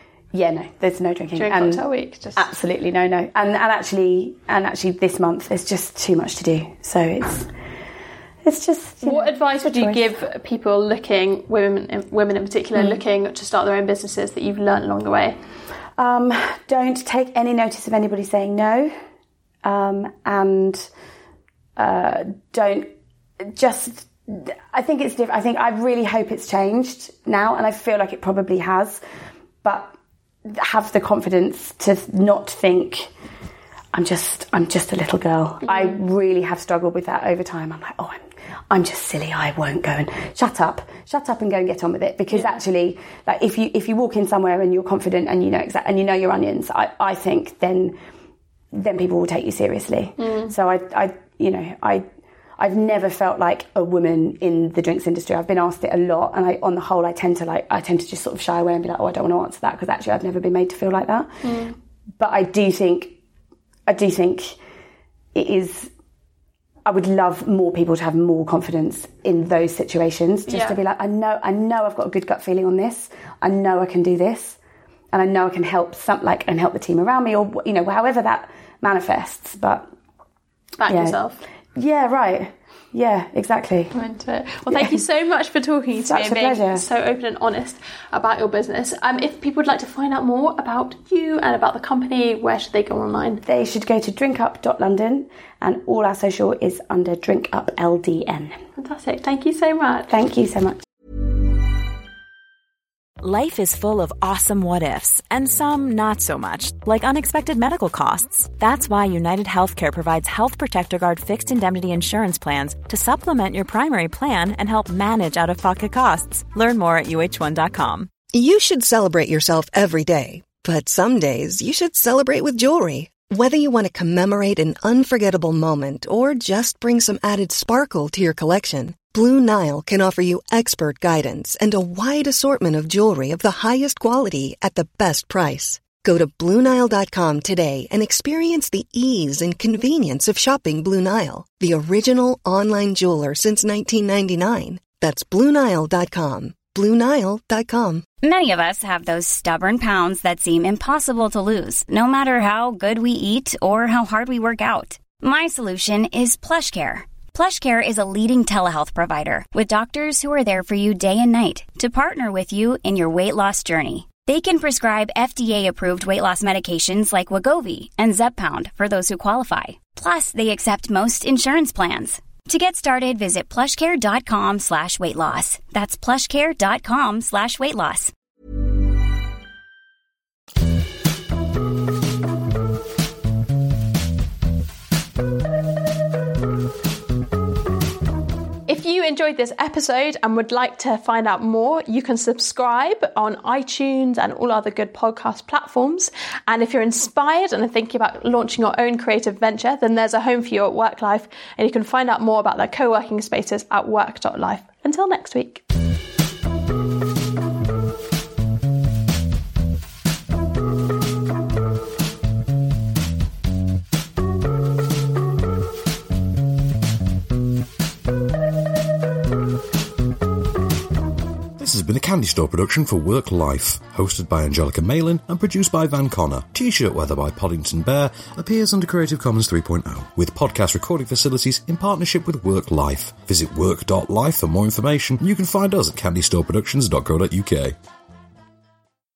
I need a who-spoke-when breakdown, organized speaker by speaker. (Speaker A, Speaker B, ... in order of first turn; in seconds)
Speaker A: 0.3-1.8, 2.3-7.5, 8.4-10.1, 16.0-18.9, 19.6-20.9, 21.8-22.9, 23.4-29.0, 29.6-29.9, 30.4-33.1, 33.9-48.0, 48.7-52.0, 52.6-61.6, 62.2-63.1, 63.9-64.6, 65.3-65.9, 66.8-74.6, 75.1-79.9, 80.9-81.2, 81.8-83.9, 84.7-85.0, 86.0-86.8, 93.5-98.6, 100.1-100.8
Speaker B: 1.4-2.5, 9.0-15.4, 35.6-36.0, 42.3-42.6, 50.2-50.5, 61.4-61.8, 70.5-70.8, 80.8-81.4, 83.9-93.4, 98.8-100.1, 188.7-205.6
Speaker C: 103.2-118.1
Speaker D: 118.3-148.1
Speaker E: 148.2-178.1
Speaker F: 221.6-237.7